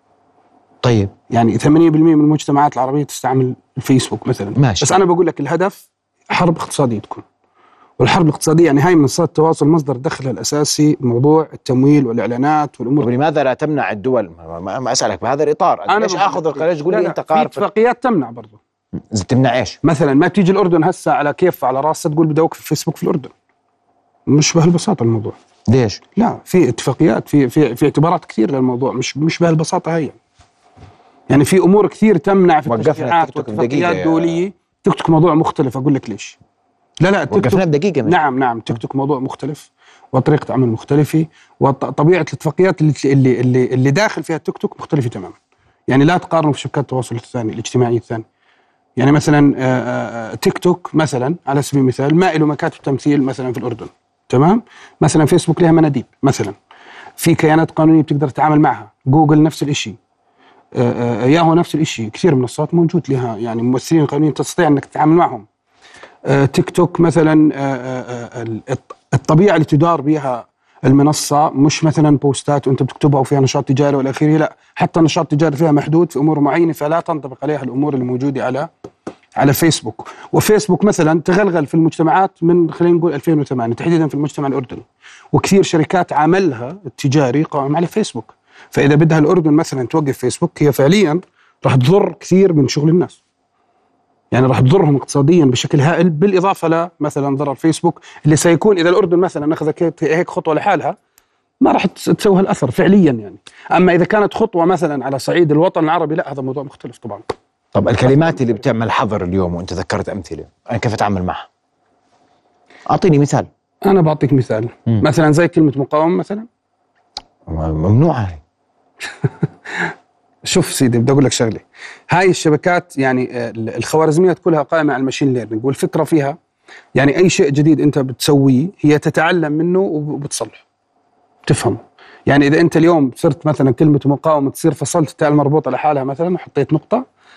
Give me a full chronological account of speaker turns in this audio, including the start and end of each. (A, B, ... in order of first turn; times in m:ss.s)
0:00.8-0:01.1 A
0:01.3-0:07.2 B
0:04.6-0:04.9 A
0:08.0-0:13.1 B
0:13.0-0:17.7 A
0:15.9-0:18.6 B
0:19.1-0:19.8 A
0:19.8-0:23.3 B
0:24.3-0:25.4 B
0:25.7-0:26.0 A
0:26.2-0:30.2 B
0:31.3-0:36.4 B
0:32.7-0:34.4 A
0:37.0-0:45.4 B
0:37.3-0:38.2 A
0:45.9-0:48.2 B
0:49.0-0:56.5 B
0:57.2-1:00.0 B
1:00.7-1:05.4 B
1:06.3-1:18.7 B
1:19.4-1:33.2 B
1:34.3-1:41.0 B
1:41.6-1:47.2 B
1:47.7-1:51.5 A
1:48.1-1:48.3 B
1:52.9-1:53.5 A
1:53.8-1:56.5 B
1:57.5-1:58.4 A
2:00.5-2:06.4 B
2:07.0-2:10.6 B
2:11.4-2:17.0 B